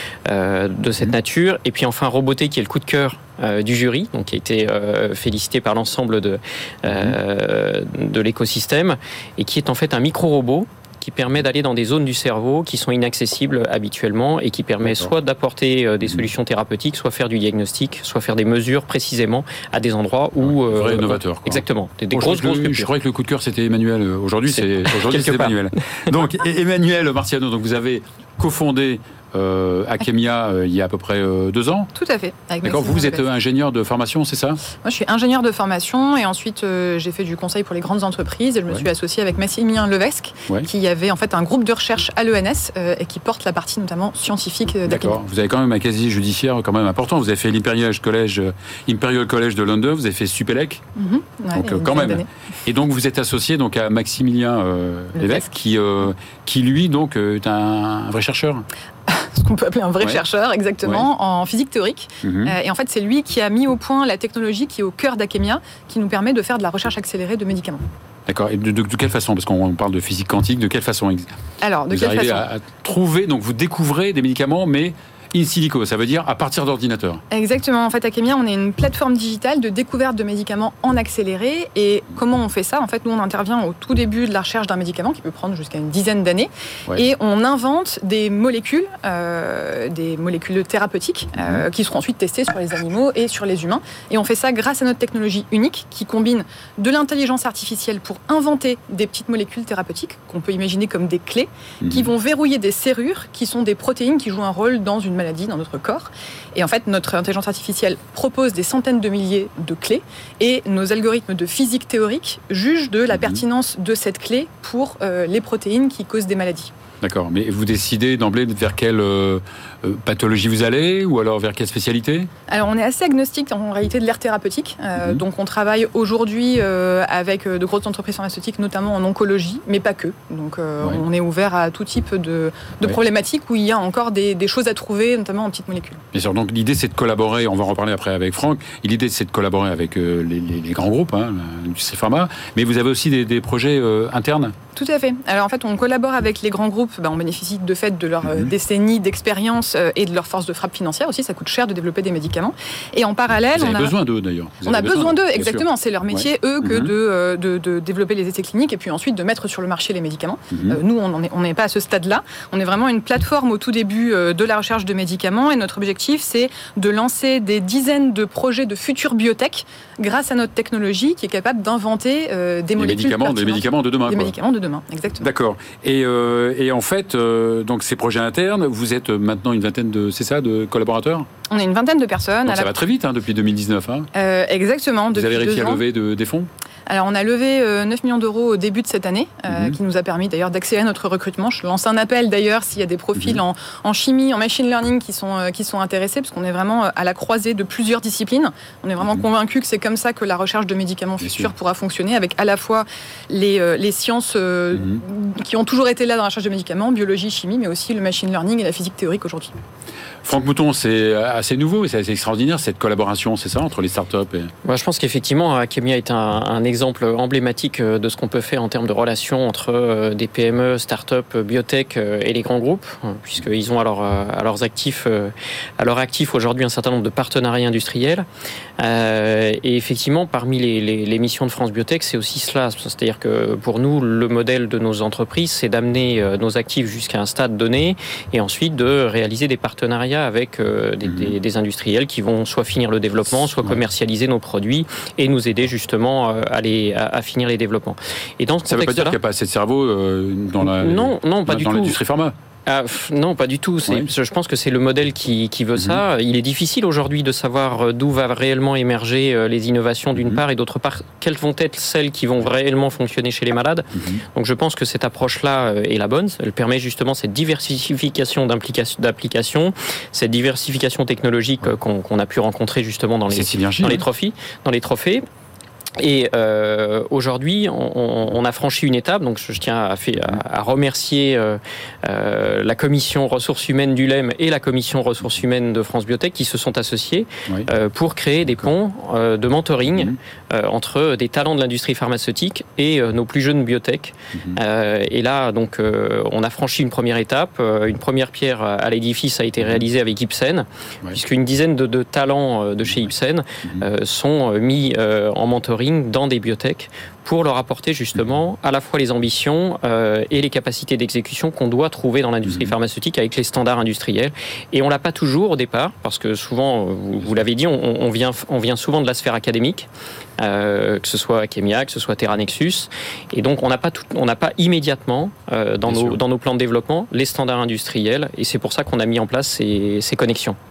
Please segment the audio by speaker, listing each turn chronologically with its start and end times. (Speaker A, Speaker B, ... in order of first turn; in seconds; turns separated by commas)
Speaker A: 0.3-22.9, Speaker B: 6.9-7.2, Speaker B: 14.8-15.1, Speaker B: 20.4-31.9, Speaker A: 24.5-25.6, Speaker C: 31.9-33.2, Speaker B: 32.6-34.6, Speaker C: 34.8-45.2, Speaker B: 44.9-50.8, Speaker C: 51.0-52.3, Speaker B: 51.5-58.7, Speaker C: 55.2-55.4, Speaker C: 59.1-67.8, Speaker B: 62.2-62.5, Speaker B: 68.3-71.3, Speaker C: 71.6-72.5, Speaker B: 71.9-77.2, Speaker C: 77.3-116.7, Speaker B: 113.1-113.4, Speaker B: 117.0-122.3, Speaker C: 122.5-136.0, Speaker B: 136.1-144.6, Speaker C: 144.8-154.0, Speaker B: 148.2-148.5, Speaker B: 153.5-156.9, Speaker C: 154.6-175.3, Speaker B: 160.5-160.8, Speaker B: 172.8-174.3, Speaker B: 175.2-181.3, Speaker C: 181.5-182.7, Speaker B: 182.5-184.1, Speaker C: 184.2-185.8, Speaker B: 185.1-186.5, Speaker C: 186.9-209.6, Speaker B: 189.5-189.8, Speaker B: 201.2-201.5, Speaker B: 204.8-205.0, Speaker B: 210.2-214.5, Speaker A: 214.7-228.3, Speaker A: 228.8-249.2, Speaker B: 241.1-241.3, Speaker B: 248.7-252.3, Speaker A: 250.6-252.0, Speaker A: 252.7-275.2, Speaker B: 260.2-260.4, Speaker B: 263.9-264.2, Speaker B: 273.3-274.0, Speaker A: 276.0-319.9, Speaker B: 289.9-290.2, Speaker B: 312.5-312.7, Speaker A: 320.4-330.6, Speaker B: 325.9-326.2